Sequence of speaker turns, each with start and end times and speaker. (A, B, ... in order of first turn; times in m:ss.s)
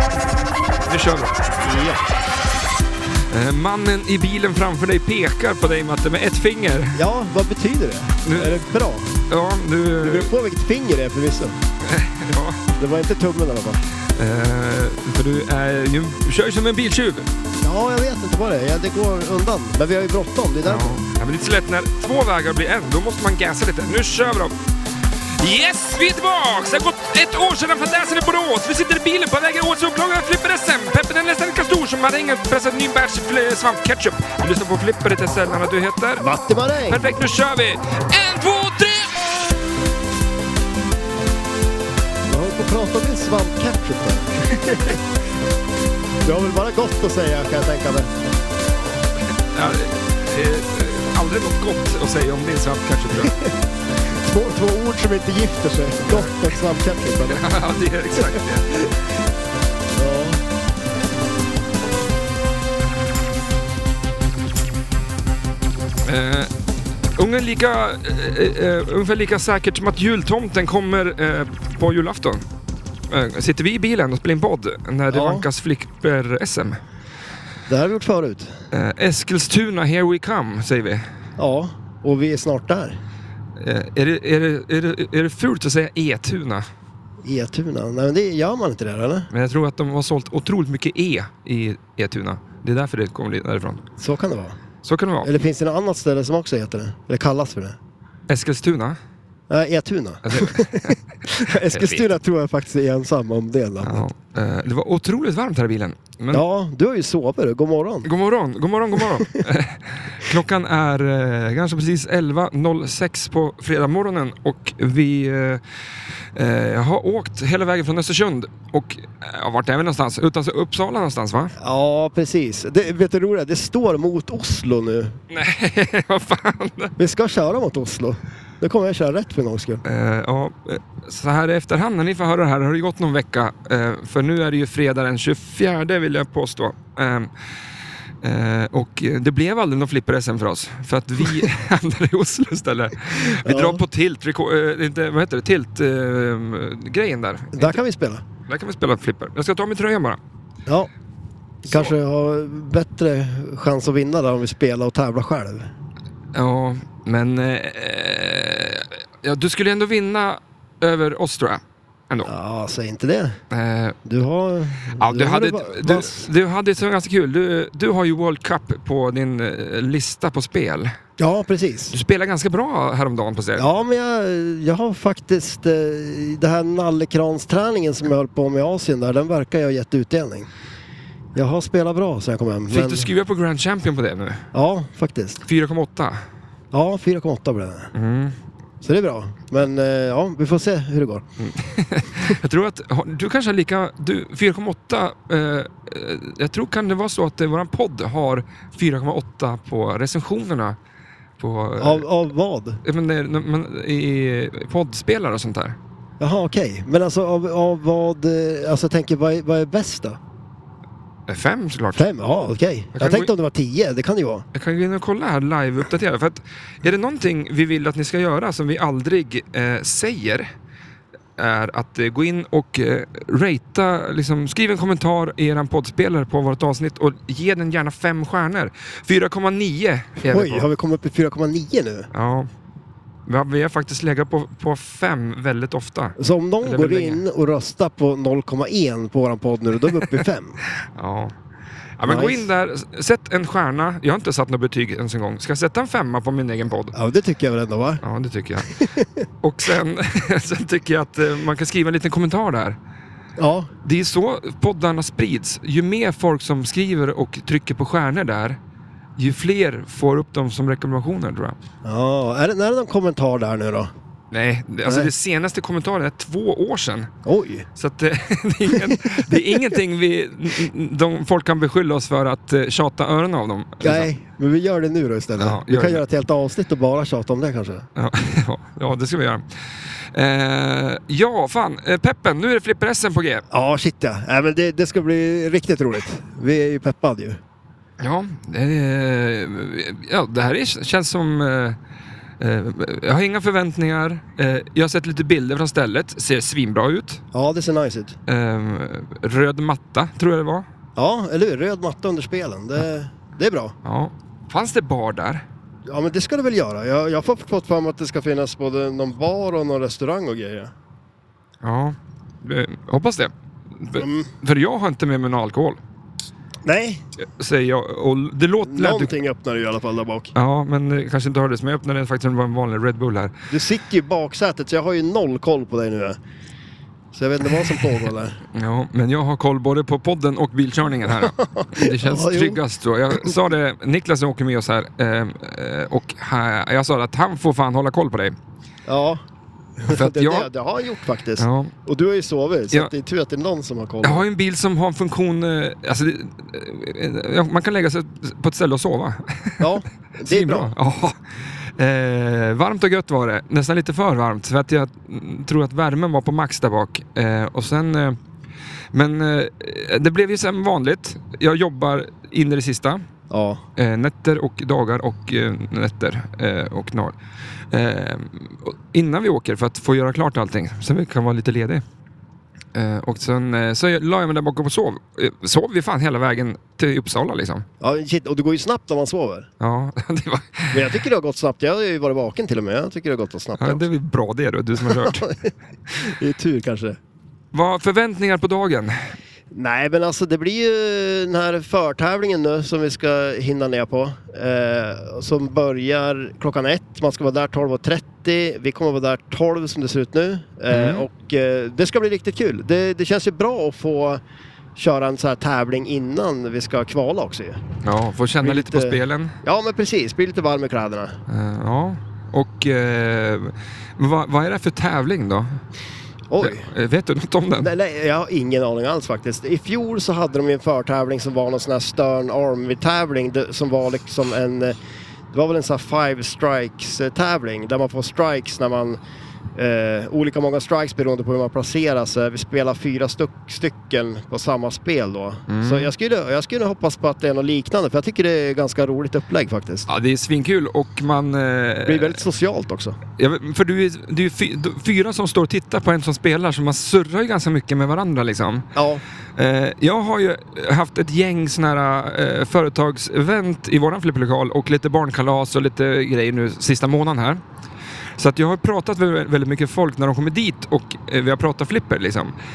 0:00.9-0:01.4 A
0:01.6-0:02.0 B
0:03.3-0:07.0 A
0:07.0-0:09.1 B
0:08.2-0:08.7 A
0:09.3-0:10.3 A
0:10.0-0:11.6 B
0:11.8-0:12.7 A
0:12.8-0:13.8 B
0:14.2-0:17.3 A
0:17.6-0:21.0 B
0:20.7-0:24.6 A
0:25.4-0:36.2 A
0:36.2-0:37.0 B
0:36.9-0:39.2 A
0:42.3-0:45.0 B
0:46.2-0:48.1 B
0:48.8-0:53.4 A
0:53.2-0:53.5 B
0:54.2-0:57.4 B
0:56.0-0:56.5 A
0:57.3-0:58.7 A
1:00.0-1:00.4 B
1:06.0-1:06.5 A
1:07.2-1:12.4 A
1:13.1-1:16.8 A
1:15.1-1:15.5 B
1:17.7-1:18.5 B
1:18.7-1:21.0 A
1:21.4-1:23.0 B
1:23.6-1:26.6 A
1:27.2-1:29.3 B
1:29.3-1:33.8 A
1:34.0-1:34.6 B
1:34.8-1:35.3 A
1:35.2-1:37.8 B
1:38.3-1:39.0 A
1:39.5-1:44.0 B
1:40.2-1:41.0 A
1:41.6-1:42.0 A
1:43.8-1:46.4 A
1:46.3-1:48.1 B
1:48.0-1:55.6 A
1:56.4-2:01.5 A
2:01.6-2:05.2 B
2:05.3-2:07.0 A
2:07.0-2:09.8 B
2:09.8-2:17.3 A
2:18.2-2:27.8 A
2:23.4-2:23.8 B
2:27.6-2:28.2 B
2:28.5-2:30.2 A
2:31.7-2:31.9 A
2:31.7-2:35.7 B
2:36.3-2:42.3 A
2:42.3-2:43.4 B
2:43.5-2:44.0 A
2:44.0-2:46.3 B
2:45.0-2:50.9 A
2:51.2-2:52.0 B
2:51.9-2:53.7 A
2:53.6-3:00.5 B
3:01.4-3:03.1 B
3:02.7-3:04.4 A
3:04.5-3:05.4 B
3:05.4-3:06.2 A
3:06.7-3:07.9 B
3:07.9-3:08.4 A
3:08.8-3:11.2 B
3:11.4-3:20.8 A
3:21.4-3:22.1 A
3:21.8-3:22.8 B
3:22.8-3:25.8 A
3:26.2-3:30.2 B
3:31.3-3:32.1 A
3:32.0-3:34.4 B
3:33.0-3:33.3 A
3:34.5-3:40.5 A
3:41.4-3:50.7 A
3:50.3-3:52.1 B
3:52.1-3:52.5 A
3:53.3-3:57.2 A
3:56.2-4:00.6 B
4:01.0-4:01.3 A
4:02.0-4:07.0 A
4:02.0-4:02.5 B
4:07.0-4:08.0 B
4:08.0-4:08.7 A
4:08.7-4:09.2 B
4:09.4-4:12.8 A
4:13.4-4:13.7 B
4:13.8-4:18.6 A
4:19.2-4:21.6 A
4:21.8-4:23.9 B
4:24.3-4:27.1 A
4:24.8-4:25.1 B
4:27.2-4:27.7 B
4:27.8-4:34.1 A
4:33.8-4:37.9 B
4:35.4-4:36.0 A
4:38.0-4:39.4 A
4:40.1-4:43.4 A
4:43.5-4:47.4 B
4:48.0-4:51.8 A
4:52.4-4:57.2 A
4:57.3-4:58.2 B
4:58.3-5:00.7 A
5:01.0-5:03.8 B
5:03.8-5:05.4 A
5:05.9-5:10.7 B
5:11.6-5:15.8 A
5:14.0-5:14.3 B
5:16.6-5:17.0 B
5:17.2-5:19.1 A
5:18.6-5:20.3 B
5:20.3-5:23.3 A
5:23.5-5:26.2 B
5:27.1-5:28.4 B
5:28.5-5:38.4 A
5:31.2-5:32.6 B
5:38.9-5:39.2 B
5:39.8-5:44.2 B
5:39.8-5:40.5 A
5:41.4-5:41.7 A
5:44.0-5:49.6 A
5:49.6-5:50.7 B
5:50.3-5:51.2 A
5:51.8-5:58.2 A
5:58.9-6:03.0 A
6:03.3-6:03.6 B
6:03.8-6:07.2 A
6:07.7-6:11.8 A
6:12.8-6:17.6 A
6:17.8-6:19.5 B
6:19.6-6:20.8 A
6:20.7-6:23.8 B
6:23.6-6:25.3 A
6:24.8-6:27.0 B
6:27.5-6:29.1 A
6:29.5-6:44.2 B
6:40.7-6:41.1 A
6:44.8-6:47.6 B
6:47.8-6:49.4 A
6:48.4-6:51.2 B
6:51.3-6:55.6 A
6:56.3-6:56.7 B
6:56.4-6:57.7 A
6:57.6-7:04.8 B
7:05.3-7:09.0 B
7:09.6-7:19.9 B
7:15.5-7:15.9 A
7:19.9-7:22.2 A
7:21.8-7:23.0 B
7:23.2-7:28.7 A
7:28.8-7:29.0 B
7:29.4-7:37.4 A
7:38.2-7:42.4 A